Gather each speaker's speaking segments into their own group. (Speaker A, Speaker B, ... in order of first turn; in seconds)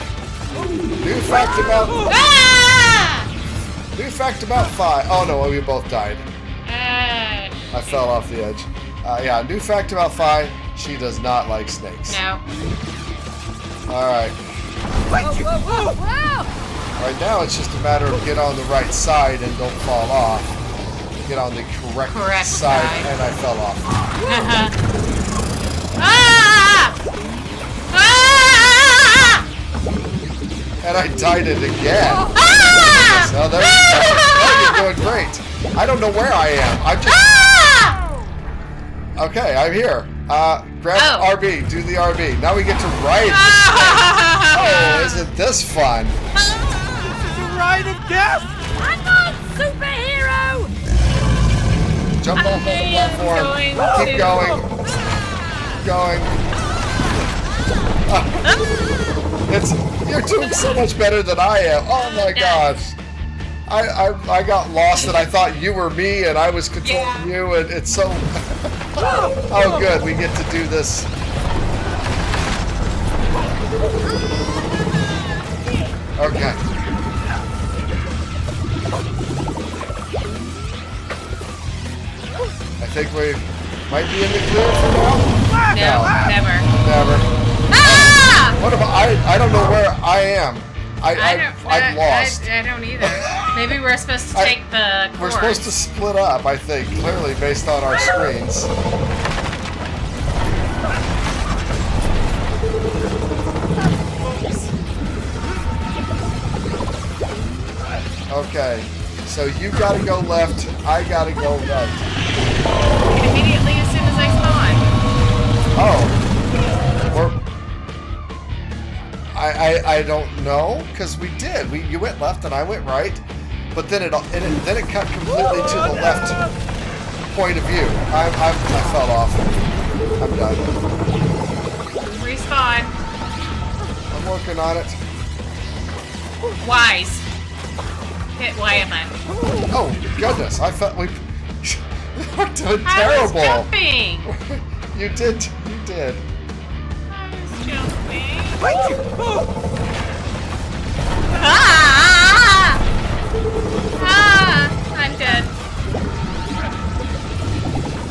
Speaker A: 0.9-2.1, 3.9-6.3, 7.7-12.2, 13.9-14.7, 17.0-20.5, 21.2-23.9, 30.8-37.4, 39.1-46.2, 52.2-54.7, 55.7-56.4, 58.1-58.6, 59.5-63.0, 63.7-71.1, 76.2-76.6, 82.8-92.5, 93.0-93.5, 95.1-98.7, 108.3-112.1, 115.7-116.2, 117.1-117.4, 119.3-126.4, 127.3-129.6, 130.2-130.7, 134.1-135.0, 139.7-143.7, 144.2-146.2
Speaker B: 1.8-2.1, 15.1-16.0, 47.0-48.6, 139.3-139.7, 148.6-149.5
Speaker C: 2.0-3.3, 6.7-8.0, 12.1-12.4, 22.1-23.1, 24.2-24.7, 26.0-26.9, 27.9-29.4, 32.3-34.8, 37.1-38.0, 40.9-41.3, 43.2-45.3, 52.4-54.6, 62.2-62.7, 66.8-67.3, 85.7-86.7, 87.7-88.6, 91.1-95.8, 104.2-104.7, 113.0-114.9, 132.0-133.0, 136.5-137.3, 138.3-139.2, 142.8-144.3, 147.1-148.8, 151.3-152.8, 154.0-155.5
Speaker D: 15.1-16.5, 48.7-50.7